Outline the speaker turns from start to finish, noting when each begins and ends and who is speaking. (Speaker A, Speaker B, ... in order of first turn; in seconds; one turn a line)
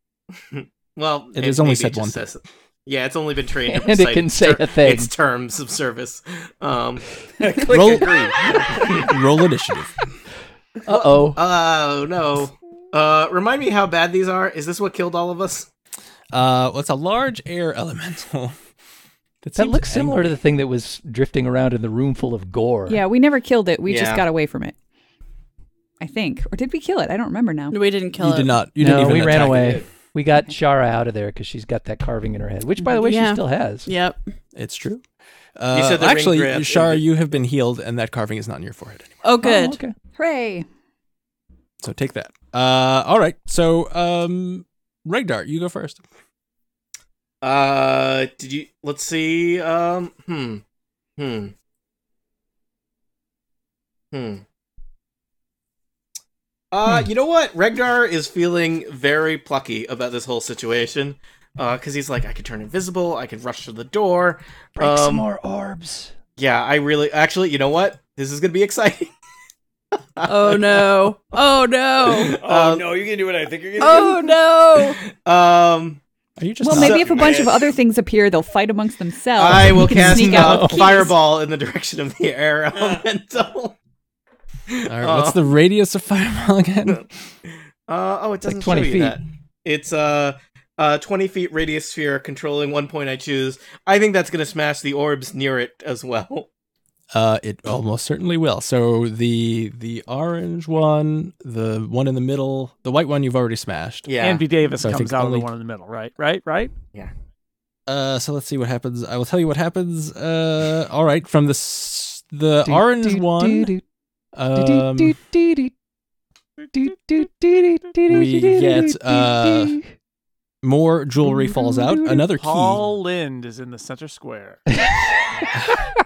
Speaker A: 0.5-7.0
Speaker B: 1.3-2.2
Speaker C: 3.7-5.1
Speaker D: 7.4-8.5
Speaker B: 7.6-10.1
Speaker A: 8.5-9.1
Speaker C: 10.8-11.4
Speaker A: 10.9-15.7
Speaker B: 16.3-18.5
Speaker B: 19.4-20.3
Speaker C: 19.5-23.0
Speaker E: 22.9-24.8
Speaker A: 23.8-24.2
Speaker E: 26.0-27.8
Speaker F: 27.7-28.5
Speaker B: 28.2-29.8
Speaker C: 28.8-33.9
Speaker D: 29.3-29.9
Speaker F: 33.0-34.2
Speaker B: 34.5-35.0
Speaker B: 35.6-39.1
Speaker A: 35.7-37.0
Speaker F: 39.2-39.8
Speaker C: 39.4-39.9
Speaker E: 40.1-40.6
Speaker B: 41.8-46.0
Speaker A: 47.4-50.6
Speaker A: 51.2-51.5
Speaker A: 54.1-54.4
Speaker A: 56.7-65.3
Speaker C: 64.8-66.1
Speaker A: 66.4-69.1
Speaker A: 70.2-71.0
Speaker F: 70.2-72.4
Speaker A: 72.0-72.8
Speaker D: 72.4-74.3
Speaker F: 73.8-75.0
Speaker A: 75.0-76.0
Speaker B: 76.4-77.3
Speaker E: 76.6-81.1
Speaker A: 76.7-77.5
Speaker D: 77.0-77.5
Speaker A: 79.3-83.8
Speaker C: 79.7-80.9
Speaker A: 84.7-85.5
Speaker B: 84.8-87.1
Speaker A: 87.9-96.5
Speaker C: 88.4-89.2
Speaker B: 97.1-104.1
Speaker A: 104.0-104.5
Speaker G: 104.2-106.7
Speaker B: 104.8-105.5
Speaker B: 107.9-113.7
Speaker C: 112.6-113.8
Speaker B: 114.3-115.2
Speaker C: 114.5-115.7
Speaker C: 116.7-119.9
Speaker B: 118.1-119.8
Speaker B: 120.6-122.8
Speaker C: 121.2-122.3
Speaker G: 122.3-124.6
Speaker C: 124.8-125.2